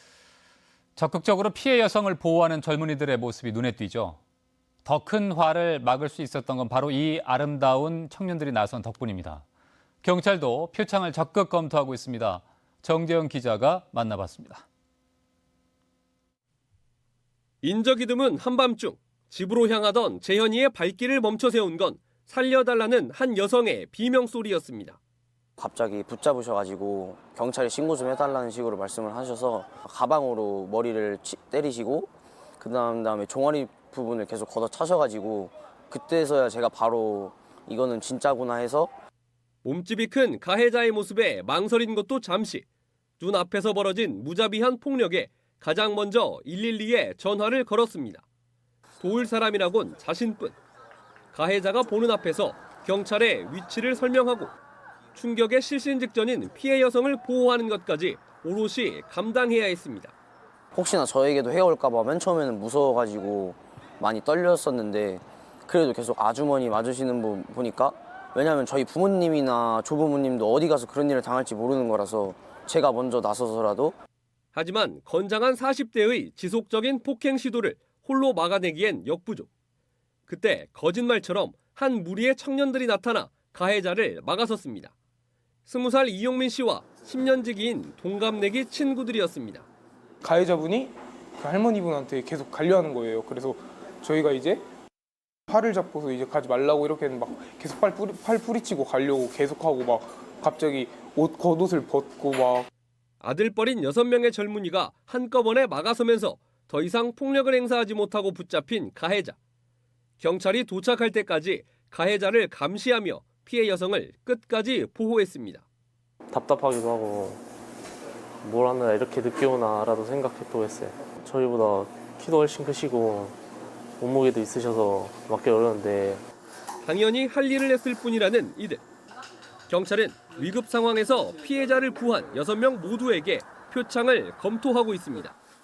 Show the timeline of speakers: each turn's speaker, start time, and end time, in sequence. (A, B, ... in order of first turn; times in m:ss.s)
0:01.0-0:04.2 A
0:04.8-0:09.4 A
0:10.0-0:14.6 A
0:17.6-0:25.0 B
0:25.6-0:38.9 C
0:39.6-0:42.6 B
0:43.2-0:48.2 B
0:49.0-0:50.6 B
0:51.3-0:54.5 B
0:55.1-1:00.1 B
1:00.7-1:13.9 C
1:14.5-1:19.5 B
1:20.3-1:24.9 B
1:25.6-1:29.6 B
1:30.2-1:34.6 D
1:35.5-1:42.7 D
1:43.2-1:49.4 B
1:50.2-1:55.6 B
1:56.3-1:57.4 E
1:58.4-2:03.4 E
2:04.0-2:06.2 E
2:06.8-2:08.8 B
2:09.7-2:15.4 B